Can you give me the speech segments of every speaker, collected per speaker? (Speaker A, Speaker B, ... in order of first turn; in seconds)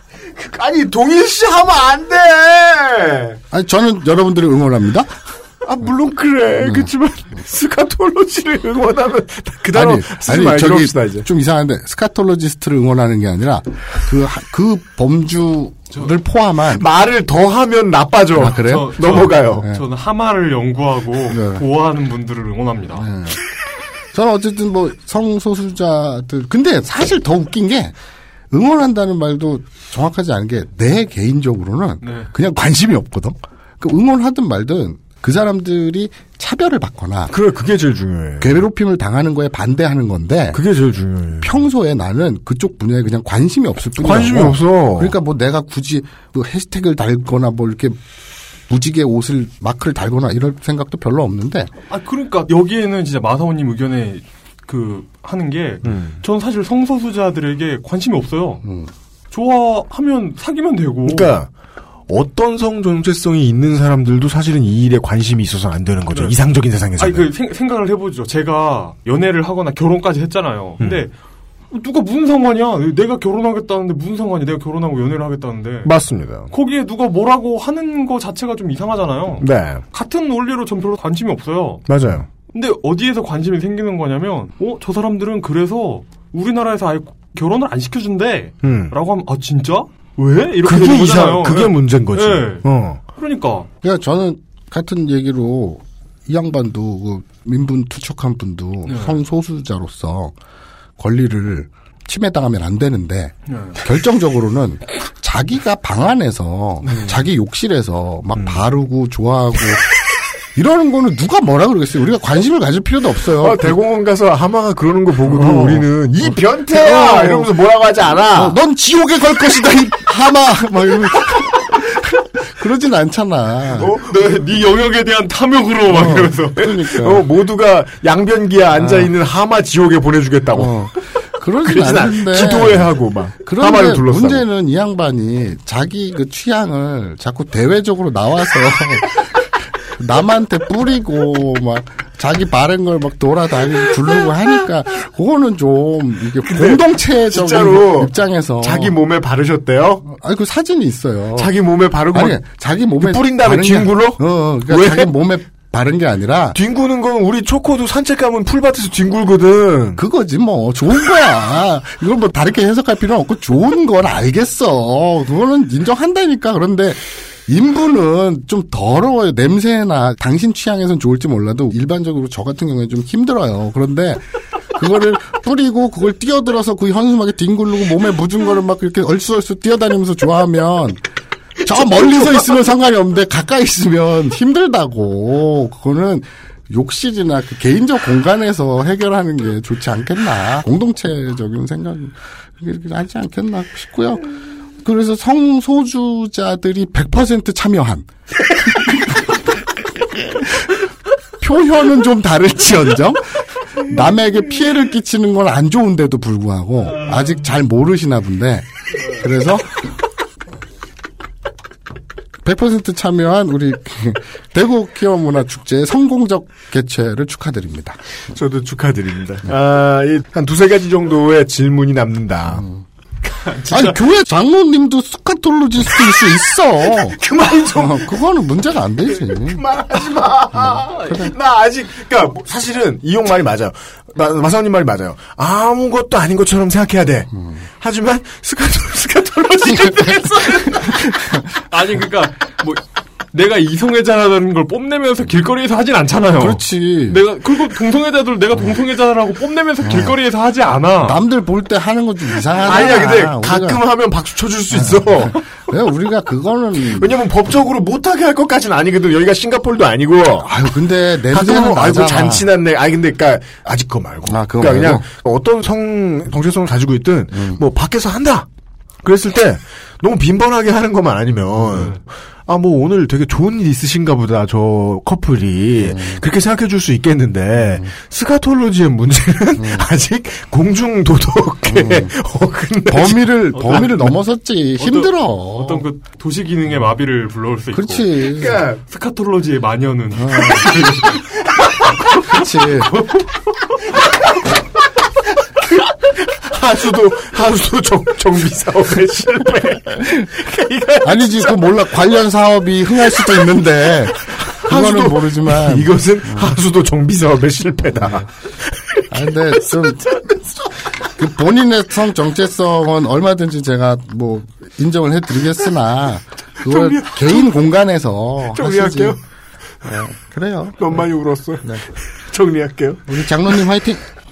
Speaker A: 0.3-3.4, 5.6-11.3, 16.7-19.7, 37.3-38.6, 40.5-41.6, 44.0-45.1, 55.8-56.2, 61.0-61.5, 62.1-67.3, 70.8-71.1, 75.8-76.5, 79.4-79.8, 81.9-82.3, 88.6-88.9, 90.6-93.0, 108.3-108.6, 113.4-118.6, 123.7-124.1, 126.9-130.8, 131.6-134.4, 146.4-150.0, 151.3-152.4, 153.0-155.1, 156.5-160.0, 218.3-222.6, 226.9-228.2, 229.2-240.7, 252.6-255.4, 256.9-260.5, 261.3-268.5, 269.0-283.3, 288.4-288.8, 296.0-301.5, 304.5-309.3, 316.6-317.5, 318.5-319.2, 320.8-323.2
Speaker B: 3.5-5.1, 6.6-6.9, 9.7-16.9, 18.4-19.8, 21.3-21.6, 23.0-23.4, 24.1-27.9, 28.5-37.3, 38.4-40.6, 41.4-48.0, 48.7-51.7, 58.6-58.9, 93.8-100.3, 101.0-109.8, 110.5-113.8, 115.5-115.8, 116.7-117.5, 118.3-123.9, 125.9-127.2, 128.8-129.1, 130.5-148.9, 150.0-151.5, 152.1-156.6, 160.0-174.2, 174.7-181.0, 181.6-194.2, 194.8-198.1, 198.7-199.2, 200.2-200.8, 201.4-209.8, 212.4-218.0, 222.5-222.8, 223.7-227.2, 227.7-229.6, 230.5-231.3, 246.4-247.2, 249.8-250.1, 251.0-253.8, 254.7-257.1, 260.4-262.5, 264.3-265.1, 275.8-276.2, 279.6-279.9, 281.7-282.1, 282.9-285.8, 287.7-288.6, 290.2-290.7, 292.2-293.0, 301.0-306.6, 309.1-310.2, 311.1-319.2, 319.9-320.8, 323.1-324.0
Speaker C: 18.7-23.1, 32.0-32.3, 51.9-58.6, 59.3-61.3, 66.1-66.3, 67.0-71.1, 71.7-75.9, 76.5-81.8, 82.5-93.7, 98.9-99.2, 103.5-103.8, 124.0-127.0, 223.4-223.9, 239.8-241.0, 241.7-251.2, 283.5-284.2, 284.8-293.2